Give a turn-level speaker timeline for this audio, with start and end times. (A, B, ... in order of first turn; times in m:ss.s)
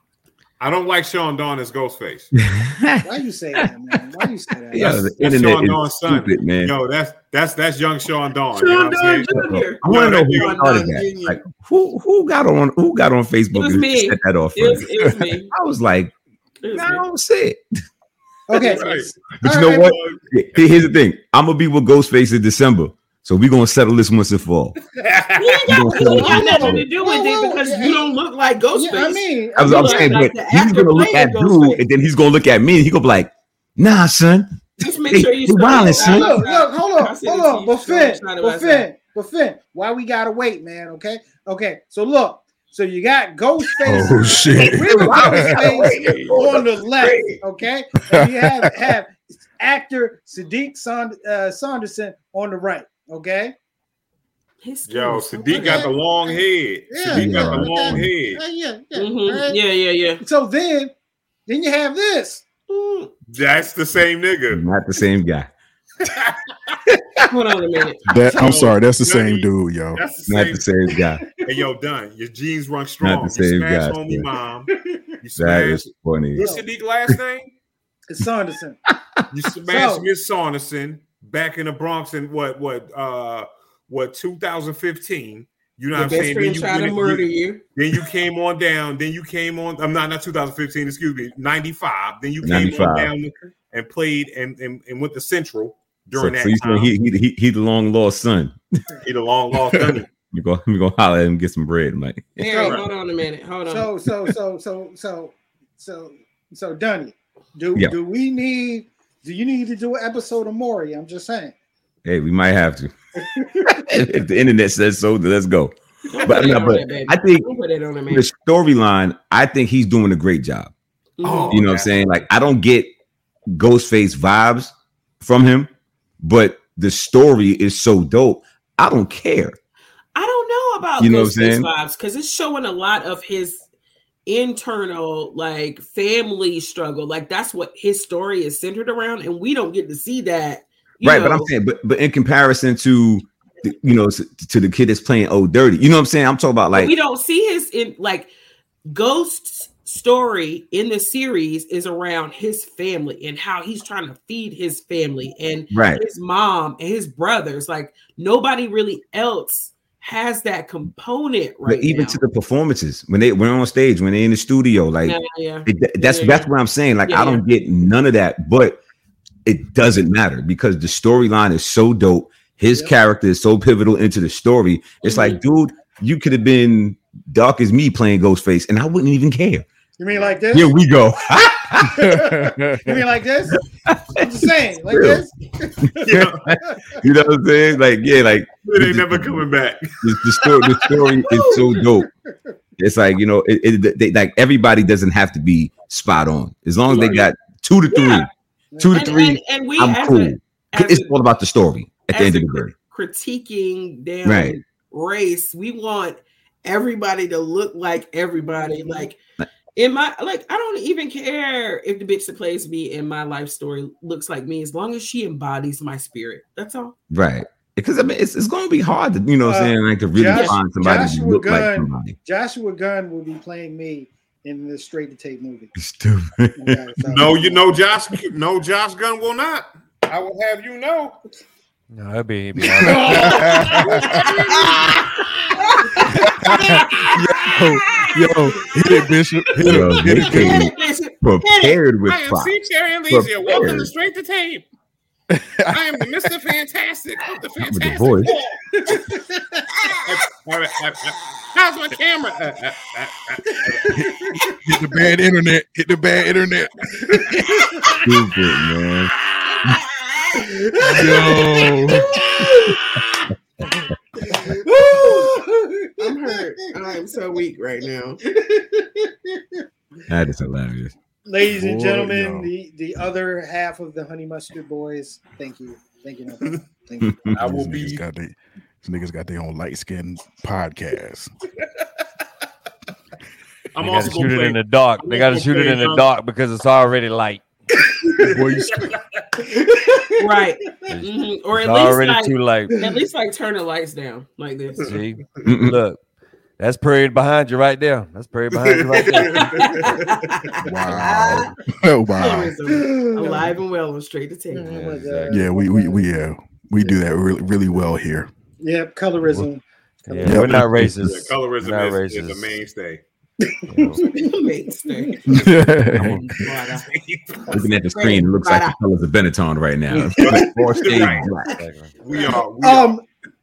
0:00.6-0:02.3 A
0:02.3-0:03.7 B
0:03.0-0:04.8 C
0:04.7-0:06.7 B
0:04.7-0:11.4 A
0:08.6-0:11.2 D
0:09.3-0:14.9 B
0:13.5-0:15.5 D
0:15.5-0:16.1 B
0:16.6-0:17.0 D
0:16.7-0:17.6 B
0:18.5-0:19.9 C
0:18.5-0:19.2 A
0:19.4-0:24.7 B
0:19.7-0:20.7 A
0:24.9-0:26.8 A
0:25.4-0:31.8 D
0:25.7-0:26.9 B
0:26.2-0:28.1 C
0:28.7-0:30.2 C
0:29.6-0:36.4 B
0:34.8-0:38.9 D
0:35.7-0:53.5 C
0:43.8-0:45.6 E
0:44.6-0:47.4 B
0:45.7-0:46.6 A
0:48.1-0:48.9 E
0:54.6-0:55.9 D
0:54.9-0:58.4 A
0:55.5-0:59.6 C
0:57.1-0:58.1 B
0:58.9-1:00.2 D
1:00.2-1:00.9 C
1:01.5-1:02.5 C
1:02.7-1:03.1 D
1:03.3-1:04.6 A
1:04.5-1:05.5 B
1:06.0-1:06.5 A
1:07.3-1:08.0 D
1:08.1-1:10.0 E
1:08.1-1:10.6 A
1:08.3-1:08.6 C
1:10.3-1:11.2 B
1:11.4-1:17.5 A
1:13.0-1:14.2 B
1:14.7-1:15.0 C
1:15.4-1:16.5 B
1:16.4-1:16.6 C
1:18.1-1:18.8 C
1:19.3-1:36.9 A
1:19.7-1:20.0 C
1:25.9-1:27.6 D
1:32.4-1:33.1 B
1:36.2-1:38.6 B
1:39.0-1:40.1 A
1:40.3-1:42.7 B
1:42.4-1:42.9 C
1:42.4-1:43.9 D
1:42.6-1:42.8 A
1:43.6-1:51.5 C
1:52.0-1:52.9 B
1:53.2-1:53.8 C
1:53.7-1:57.5 B
1:56.1-1:58.3 D
1:58.1-2:00.7 B
2:01.2-2:01.7 D
2:01.2-2:01.8 A
2:01.5-2:02.9 B
2:03.5-2:09.6 B
2:10.1-2:13.6 D
2:11.0-2:11.7 B
2:14.2-2:21.5 D
2:21.0-2:26.9 B
2:26.7-2:28.3 D
2:28.8-2:42.2 D
2:35.7-2:36.0 B
2:41.6-2:48.8 B
2:45.0-2:46.5 D
2:47.0-2:47.4 D
2:49.4-2:59.6 B
2:55.0-2:55.4 D
3:00.0-3:00.8 C
3:00.5-3:02.0 B
3:01.6-3:03.6 C
3:01.9-3:03.0 E
3:03.8-3:05.2 B
3:04.2-3:07.0 C
3:06.0-3:06.4 A
3:06.1-3:09.4 B
3:08.6-3:10.8 A
3:10.0-3:12.1 B
3:11.2-3:11.8 D
3:11.8-3:12.1 C
3:12.8-3:22.7 B
3:16.9-3:17.3 D
3:17.9-3:18.2 D
3:18.7-3:19.2 C
3:18.9-3:21.1 D
3:22.1-3:29.2 D
3:24.2-3:24.6 B
3:28.4-3:29.1 C
3:29.7-3:37.0 D
3:37.1-3:42.2 B
3:39.4-3:45.7 C
3:40.3-3:40.6 D
3:45.8-3:46.8 B
3:46.6-3:47.6 C
3:47.1-3:51.2 A
3:51.9-3:53.3 F
3:52.8-3:54.3 E
3:52.8-3:54.0 C
3:53.2-3:54.8 D
3:54.0-3:55.5 A
3:55.6-4:01.8 D
3:56.1-4:00.7 E
3:59.6-4:02.5 B
4:02.1-4:04.6 A
4:03.1-4:03.9 B
4:05.3-4:06.3 E
4:05.7-4:08.5 A
4:07.6-4:08.3 B
4:08.7-4:09.9 C
4:10.0-4:13.9 A
4:13.6-4:14.5 C
4:13.9-4:17.8 E
4:18.0-4:19.1 B
4:19.6-4:23.0 D
4:20.4-4:21.7 C
4:20.8-4:22.1 E
4:22.3-4:22.8 C
4:23.7-4:26.4 C
4:24.2-4:25.4 D
4:26.0-4:28.2 D
4:28.3-4:29.6 C
4:30.1-4:30.9 B
4:31.2-4:37.2 C
4:31.4-4:32.5 E
4:37.0-4:37.3 B
4:37.3-4:41.3 E
4:37.3-4:38.0 A
4:43.7-4:46.1 A
4:43.8-4:47.4 F
4:48.2-4:48.9 E
4:49.5-4:50.9 C
4:49.5-4:54.9 D
4:50.9-4:52.8 F
4:54.8-4:56.0 F
4:54.9-4:55.4 A
4:55.4-4:55.8 B
4:56.6-5:00.0 F
4:58.7-5:00.0 A
4:59.1-5:01.5 D
5:00.6-5:02.6 E
5:02.2-5:04.8 D
5:02.6-5:03.5 C
5:04.5-5:06.0 C
5:04.7-5:05.4 F
5:05.3-5:08.3 E
5:08.6-5:10.3 C
5:09.2-5:09.5 F
5:10.0-5:12.6 F
5:10.2-5:10.9 E
5:10.4-5:13.0 A
5:13.4-5:15.1 C
5:13.7-5:14.1 F
5:14.1-5:15.5 D
5:15.3-5:16.3 E
5:16.0-5:16.9 D
5:16.8-5:17.5 A
5:17.5-5:21.6 B
5:18.0-5:18.7 D
5:19.9-5:20.8 C
5:20.2-5:21.3 A
5:21.4-5:21.9 F
5:22.0-5:23.0 A
5:22.2-5:23.0 C